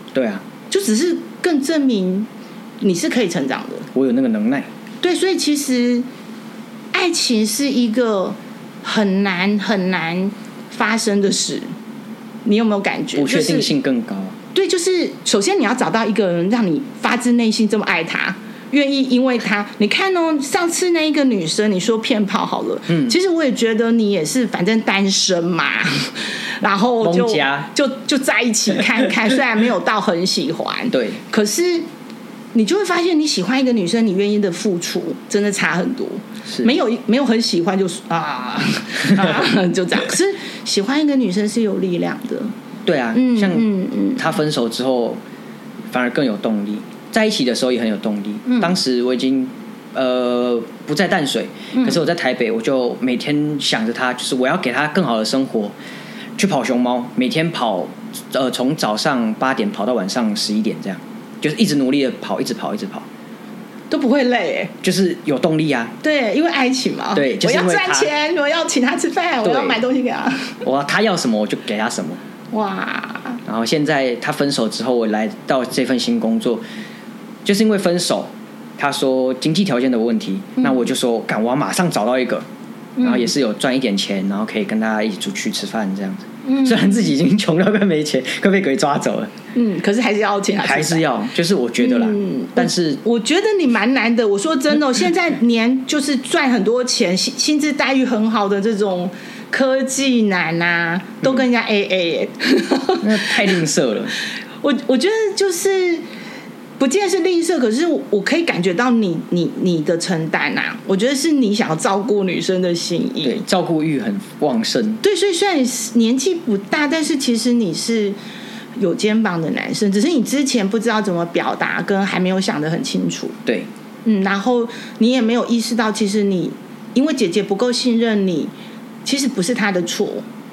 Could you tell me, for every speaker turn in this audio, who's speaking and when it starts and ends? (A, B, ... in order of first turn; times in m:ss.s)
0:00.1-0:00.4 A
0:00.7-0:02.3 B
0:02.8-0:03.9 B
0:03.9-0:04.7 A
0:05.0-0:06.1 B
0:06.9-0:11.7 B
0:12.4-0:13.7 B
0:13.1-0:14.4 A
0:14.5-0:31.8 B
0:22.9-0:23.1 A
0:27.0-0:27.7 A
0:30.9-0:31.2 A
0:32.5-0:42.5 B
0:42.8-0:45.2 A
0:43.1-0:44.3 B
0:45.9-0:55.7 A
0:48.4-0:48.7 B
0:51.7-0:52.0 B
0:56.4-1:03.1 A
1:03.9-1:04.7 B
1:04.8-1:05.9 A
1:06.0-1:10.6 B
1:07.1-1:08.1 A
1:09.4-1:09.8 A
1:10.6-1:12.2 A
1:12.5-1:13.4 B
1:13.4-1:16.6 A
1:17.4-1:22.4 A
1:23.0-1:23.3 B
1:23.0-1:29.3 A
1:26.4-1:27.0 B
1:29.5-1:31.0 B
1:30.6-1:33.0 A
1:31.8-1:43.6 B
1:43.0-1:44.1 A
1:44.6-1:46.0 B
1:46.8-1:53.4 B
1:53.2-1:55.0 A
1:55.0-1:58.2 B
1:58.8-2:03.4 B
2:04.0-2:08.5 B
2:09.0-2:10.2 B